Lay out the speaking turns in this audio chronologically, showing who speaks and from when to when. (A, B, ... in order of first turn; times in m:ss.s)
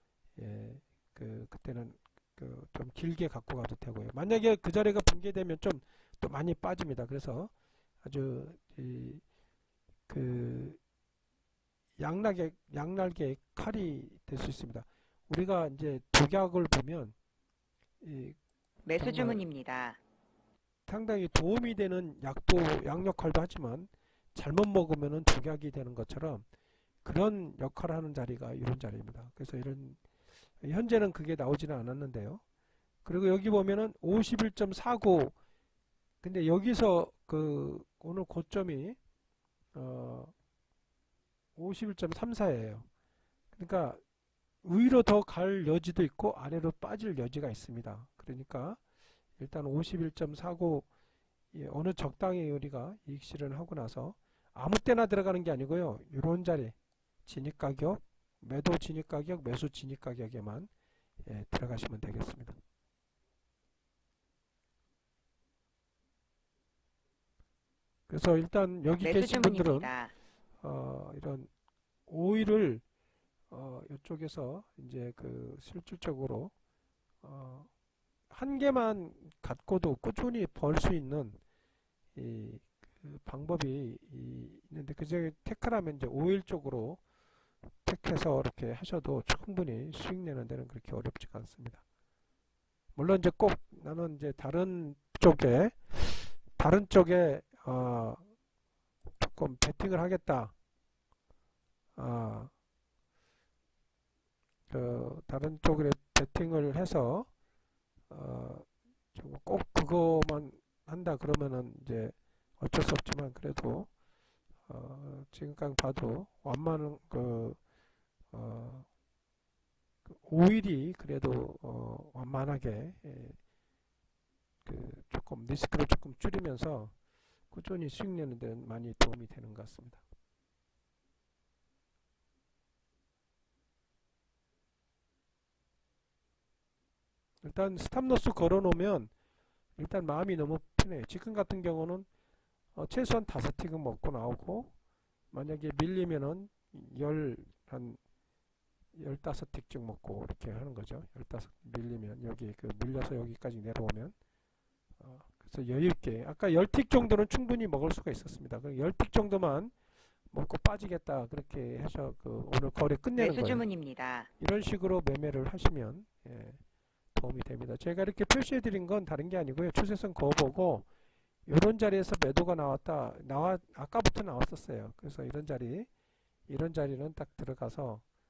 0:00.4-0:07.5 A
0:08.0-0:09.2 A
0:10.1-0:10.8 A
0:12.0-0:17.2 A
0:18.0-0:18.4 A
0:18.8-0:20.0 B
0:19.0-0:19.4 A
0:20.9-0:26.4 A
0:27.0-0:30.0 A
0:30.6-0:32.4 A
0:33.0-0:35.4 A
0:36.2-0:39.0 A
0:39.8-0:40.3 A
0:41.6-0:42.9 A
0:43.5-0:44.0 A
0:44.6-0:48.8 A
0:49.4-0:50.9 A
0:51.5-1:00.7 A
1:01.2-1:02.6 A
1:08.1-1:09.9 A
1:09.0-1:10.1 B
1:10.6-1:11.5 A
1:12.1-1:12.8 A
1:13.5-1:16.5 A
1:17.2-1:17.7 A
1:18.3-1:21.4 A
1:22.2-1:27.0 A
1:27.8-1:31.8 A
1:33.0-1:38.3 A
1:39.2-1:40.5 A
1:42.0-1:42.5 A
1:44.7-1:47.3 A
1:48.1-1:53.9 A
1:54.7-1:57.6 A
1:58.3-1:58.9 A
2:00.1-2:03.4 A
2:04.6-2:06.9 A
2:07.5-2:10.0 A
2:17.4-2:19.1 A
2:19.8-2:22.1 A
2:22.8-2:24.7 A
2:25.3-2:28.0 A
2:29.0-2:34.2 A
2:35.0-2:39.7 A
2:40.3-2:43.7 A
2:43.2-2:44.3 B
2:44.4-2:46.6 A
2:47.2-2:50.9 A
2:51.5-2:55.9 A
2:56.5-2:58.0 A